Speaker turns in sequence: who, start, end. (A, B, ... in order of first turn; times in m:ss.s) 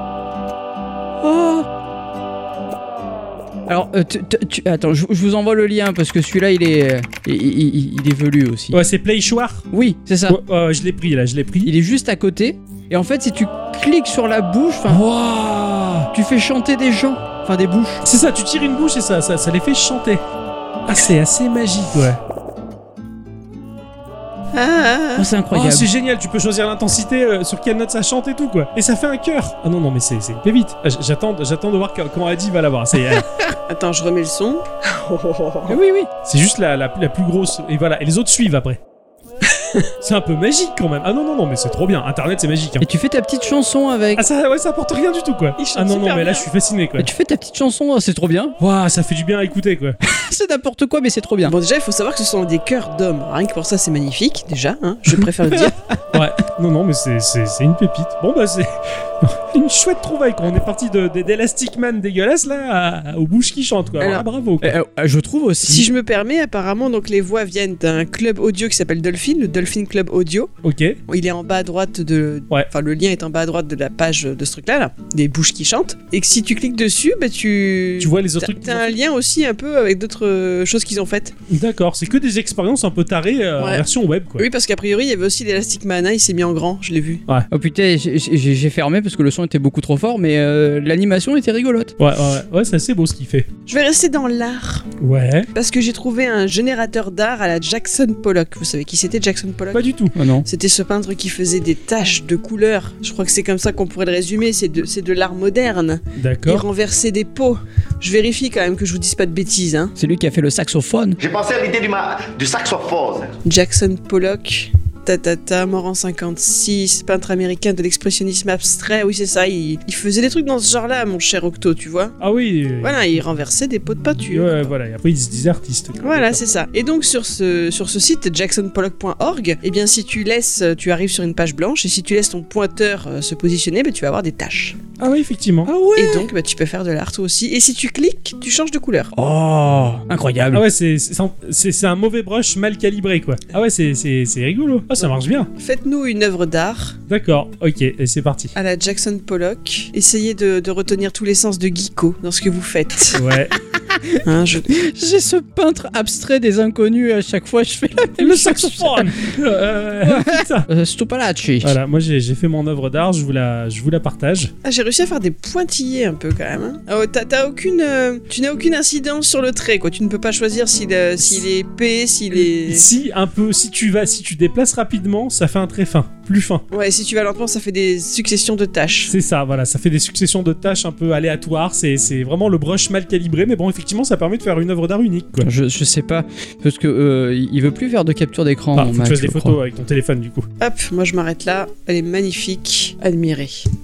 0:01.2-0:01.7 A
0:03.7-0:08.8 A
0:08.7-0:09.6 B
0:09.7-0:10.4 A
0:10.3-0:11.7 B
0:11.6-0:15.0 A
0:14.9-0:16.1 B
0:16.1-0:18.0 A
0:18.0-0:20.2 B
0:20.9-0:22.2 B
0:24.5-0:25.3 C
0:25.2-0:25.9 A
0:25.5-0:33.3 B
0:33.7-0:35.8 C
0:35.7-0:36.1 A
0:36.2-0:38.8 B
0:40.0-0:42.8 B
0:42.8-0:44.3 A
0:44.2-0:47.1 B
0:45.6-0:46.5 C
0:47.0-0:48.6 A
0:48.6-0:50.0 B
0:50.0-0:51.6 A
0:51.4-0:55.8 C
0:56.1-1:04.8 B
1:04.0-1:04.2 C
1:04.6-1:05.9 A
1:05.6-1:10.5 C
1:10.6-1:11.0 B
1:11.1-1:21.3 C
1:18.0-1:19.0 B
1:21.5-1:24.4 B
1:23.6-1:23.8 C
1:24.4-1:27.2 C
1:27.5-1:31.9 A
1:32.0-1:33.5 B
1:33.7-1:34.9 C
1:35.0-1:35.5 B
1:35.5-1:39.9 C
1:39.7-1:40.1 B
1:40.1-1:40.5 A
1:40.4-1:50.0 C
1:46.2-1:46.6 B
1:50.0-1:51.2 A
1:51.2-1:53.3 D
1:53.4-2:02.2 C
2:02.2-2:03.2 B
2:02.8-2:04.7 C
2:04.3-2:06.4 B
2:06.0-2:14.8 C
2:15.0-2:15.7 B
2:15.7-2:16.3 A
2:16.0-2:19.1 C
2:19.2-2:20.6 A
2:20.5-2:25.5 B
2:25.5-2:27.0 C
2:27.1-2:28.5 B
2:28.6-2:33.2 C
2:33.1-2:33.6 B
2:33.8-2:39.2 A
2:34.2-2:34.8 C
2:38.2-2:40.7 B
2:40.0-2:41.8 A
2:41.6-2:44.5 B
2:44.6-2:52.9 C
2:52.3-2:56.6 B
2:56.7-2:59.1 C
2:59.1-3:05.5 B
3:05.4-3:09.6 A
3:08.8-3:10.5 B
3:10.6-3:13.7 C